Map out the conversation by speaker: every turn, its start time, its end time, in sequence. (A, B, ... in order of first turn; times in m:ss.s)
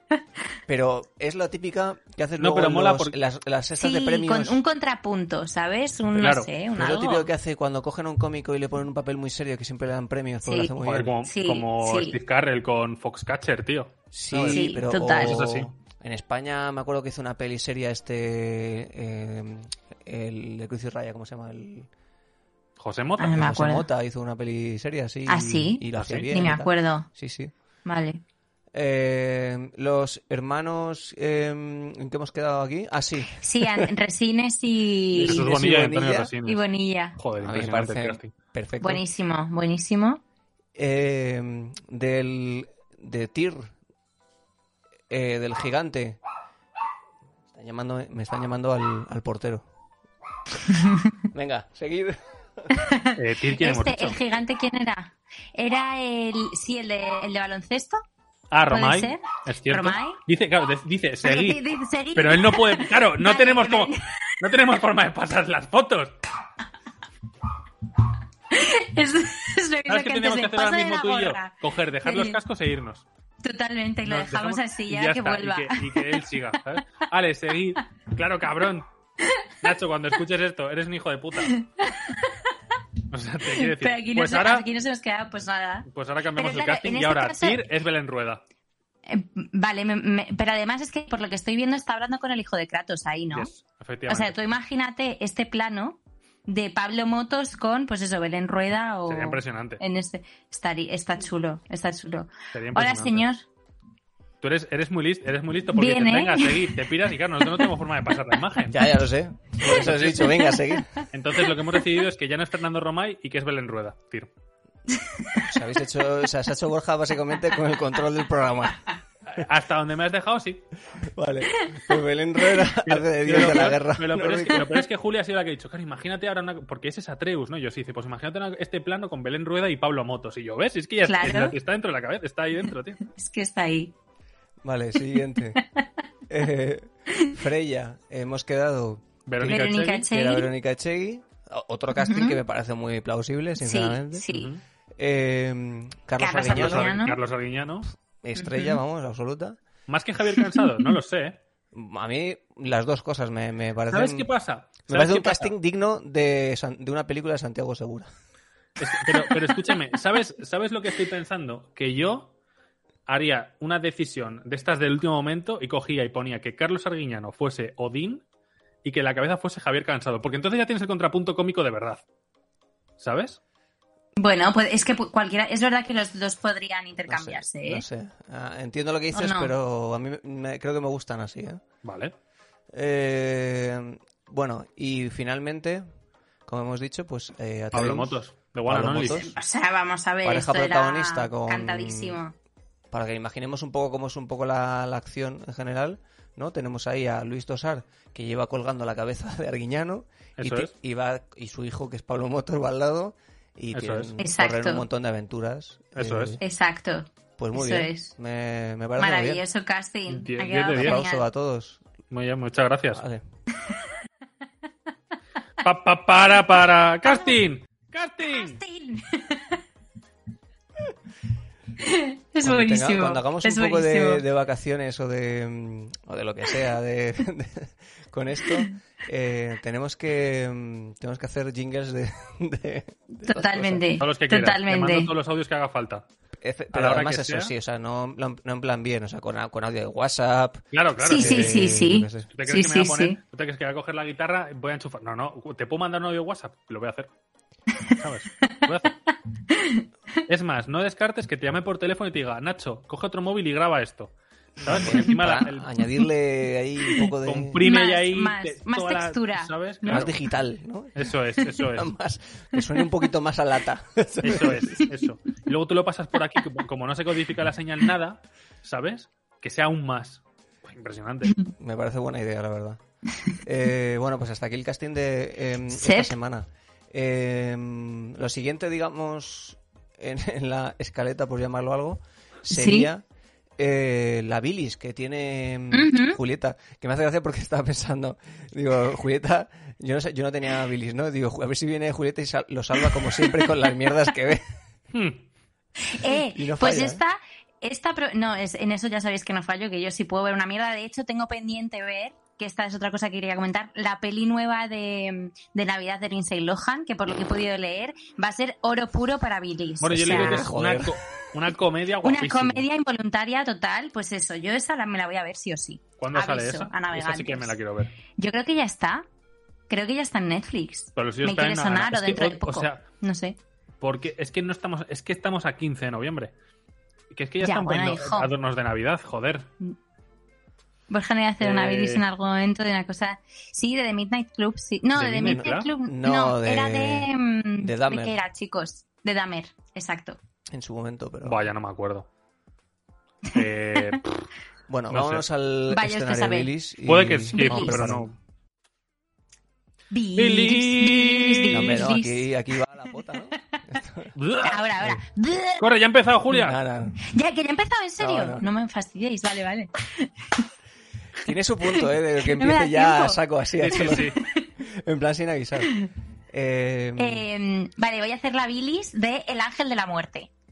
0:00.7-0:04.6 A
0:02.4-0:03.2 B
0:03.8-0:07.3 C
0:06.2-0:06.5 B
0:06.8-0:11.1 A
0:10.4-0:12.2 C
0:10.8-0:15.7 B
0:14.1-0:21.9 A
0:14.5-0:15.5 C
0:22.8-0:23.4 B
0:23.2-0:23.9 C
0:23.3-0:27.5 A
0:25.3-0:27.1 C
0:26.0-0:26.3 B
0:27.8-0:28.2 C
0:28.7-0:33.9 A
0:33.3-0:35.4 C
0:35.2-0:36.6 B
0:35.2-0:36.3 A
0:36.4-0:37.2 C
0:37.2-0:38.3 B
0:37.4-0:39.0 A
0:38.8-0:40.2 C
0:40.8-0:43.7 A
0:45.1-0:46.2 A
0:47.5-0:49.7 A
0:50.7-0:51.1 C
0:51.3-0:52.7 A
0:52.7-0:58.0 C
0:53.2-0:54.2 B
0:58.5-1:01.6 B
0:58.7-1:00.2 C
1:01.2-1:04.1 C
1:02.2-1:06.2 B
1:08.5-1:12.4 C
1:09.9-1:13.0 B
1:13.4-1:16.2 C
1:14.0-1:18.9 B
1:19.2-1:19.5 C
1:19.6-1:21.6 B
1:21.4-1:22.6 C
1:23.1-1:24.7 B
1:23.5-1:27.6 C
1:25.9-1:28.4 B
1:29.1-1:33.5 C
1:33.3-1:34.4 B
1:34.1-1:43.4 C
1:39.1-1:39.8 B
1:42.5-1:43.2 B
1:44.4-1:48.8 B
1:45.7-1:46.8 C
1:48.7-1:51.0 A
1:49.6-1:50.5 B
1:51.1-1:54.3 B
1:54.9-1:55.5 C
1:55.4-1:58.8 A
1:59.3-2:00.6 B
2:01.0-2:04.8 A
2:01.5-2:01.9 C
2:02.8-2:13.0 B
2:11.0-2:11.6 C
2:13.1-2:13.9 C
2:14.6-2:15.6 A
2:15.6-2:15.8 C
2:16.3-2:24.3 A
2:19.3-2:20.1 B
2:19.4-2:20.5 C
2:22.0-2:22.4 C
2:23.6-2:24.5 C
2:24.3-2:24.6 B
2:25.0-2:26.9 A
2:26.2-2:27.2 C
2:26.4-2:27.9 B
2:28.2-2:29.6 A
2:28.4-2:28.8 C
2:29.9-2:31.4 B
2:31.7-2:34.3 A
2:33.9-2:35.5 B
2:34.9-2:38.1 A
2:38.8-2:42.3 B
2:43.1-2:48.2 B
2:48.8-2:52.0 B
2:53.0-2:53.4 B
2:54.2-2:57.8 C
2:57.1-3:01.6 A
2:59.1-2:59.5 C
3:01.8-3:02.1 B
3:02.7-3:05.8 A
3:06.5-3:09.3 A
3:07.7-3:09.3 B
3:09.0-3:12.3 C
3:10.2-3:12.2 A
3:12.9-3:26.4 A
3:20.4-3:20.7 B
3:23.7-3:24.1 B
3:24.2-3:24.8 C
3:26.0-3:26.4 B
3:26.4-3:28.1 C
3:27.4-3:29.4 A
3:29.0-3:31.2 C
3:30.1-3:31.0 B
3:30.7-3:31.8 A
3:32.1-3:33.0 B
3:32.9-3:33.2 A
3:35.6-3:38.6 B
3:38.3-3:39.6 C
3:41.8-3:44.2 C
3:42.4-3:53.8 A
3:53.2-3:55.1 C
3:54.0-3:56.1 B
3:56.4-4:02.3 A
3:56.7-3:57.5 B
4:00.7-4:01.8 B
4:01.0-4:03.2 C
4:02.3-4:07.1 B
4:07.8-4:08.6 C
4:08.0-4:09.0 B
4:09.5-4:09.8 C
4:10.3-4:15.7 B
4:14.6-4:17.6 A
4:17.2-4:20.1 B
4:17.6-4:20.1 C
4:19.9-4:24.8 A
4:21.0-4:21.9 B
4:24.2-4:31.4 B
4:31.6-4:32.8 A
4:33.4-4:43.0 A
4:35.7-4:36.1 C
4:42.5-4:42.9 C
4:43.6-4:54.4 A
4:45.7-4:46.2 C
4:54.9-4:55.2 B
4:55.9-5:10.5 C
4:56.1-4:57.0 A
5:09.8-5:12.6 B
5:09.9-5:11.0 A
5:12.0-5:17.6 C
5:16.0-5:17.9 B
5:18.2-5:19.0 C
5:19.7-5:23.4 C
5:21.0-5:22.8 B
5:23.8-5:26.3 B
5:27.1-5:29.5 B
5:27.4-5:28.3 C
5:30.9-5:40.2 C
5:31.4-5:32.0 B
5:35.0-5:35.7 B
5:35.2-5:38.2 A
5:40.5-5:41.5 A
5:41.2-5:42.1 B
5:43.3-5:43.9 C
5:43.3-5:44.3 B
5:44.7-5:48.2 A
5:44.9-5:45.2 B
5:45.7-5:46.5 C
5:46.9-5:48.1 B
5:47.3-5:47.8 C
5:49.9-5:52.2 C
5:50.2-5:51.9 B
5:51.5-5:54.1 A
5:54.2-5:54.6 B
5:54.4-5:55.6 C
5:55.6-5:56.6 B
5:56.3-5:57.0 A
5:57.0-6:00.5 C
5:58.0-5:58.5 A
6:01.2-6:05.8 A
6:01.6-6:04.5 C
6:03.6-6:04.2 B
6:06.3-6:07.3 A
6:07.0-6:10.3 C